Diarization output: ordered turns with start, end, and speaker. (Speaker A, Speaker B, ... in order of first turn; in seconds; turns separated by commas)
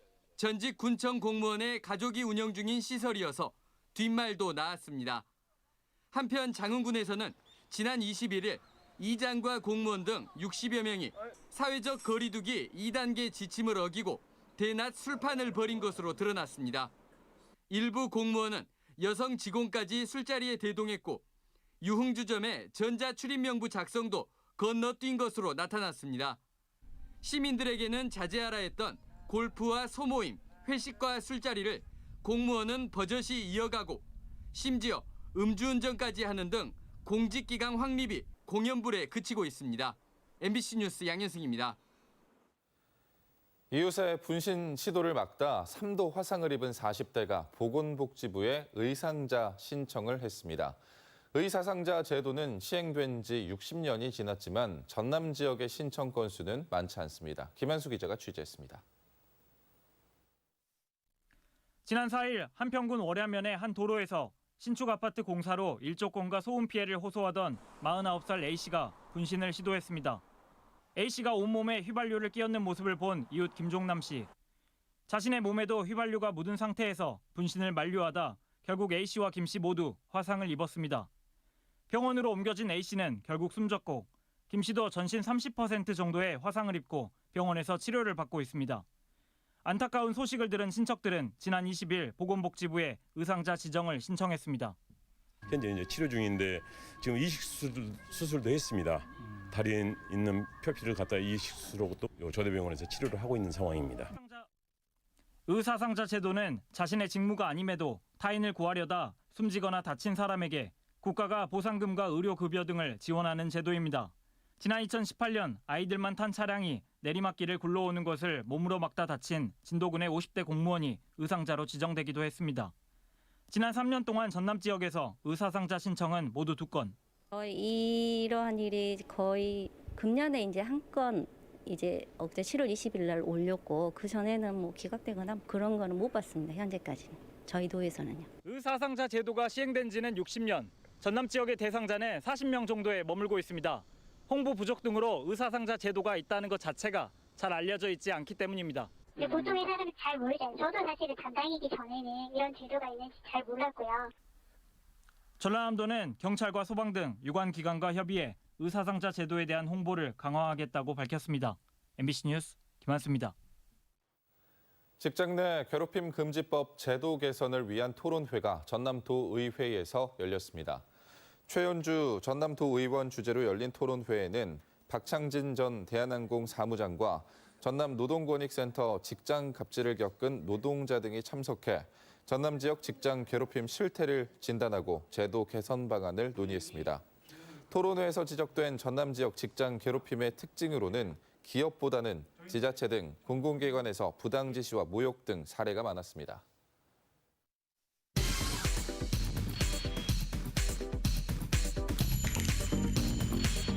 Speaker A: 0.4-5.2, Speaker A: 6.1-16.9, Speaker A: 17.7-21.2, Speaker A: 21.8-26.4, Speaker A: 27.2-41.8, Speaker B: 43.7-50.8, Speaker B: 51.3-58.8, Speaker C: 61.8-70.2, Speaker C: 71.0-74.3, Speaker C: 75.1-81.1, Speaker C: 81.9-88.8, Speaker C: 89.6-94.8, Speaker D: 95.5-104.1, Speaker C: 104.1-104.5, Speaker C: 105.5-122.7, Speaker C: 123.5-127.0, Speaker E: 127.3-138.3, Speaker C: 138.4-149.6, Speaker F: 149.8-154.0, Speaker C: 155.4-163.3, Speaker B: 165.0-170.8, Speaker B: 171.5-187.0, Speaker B: 187.7-196.4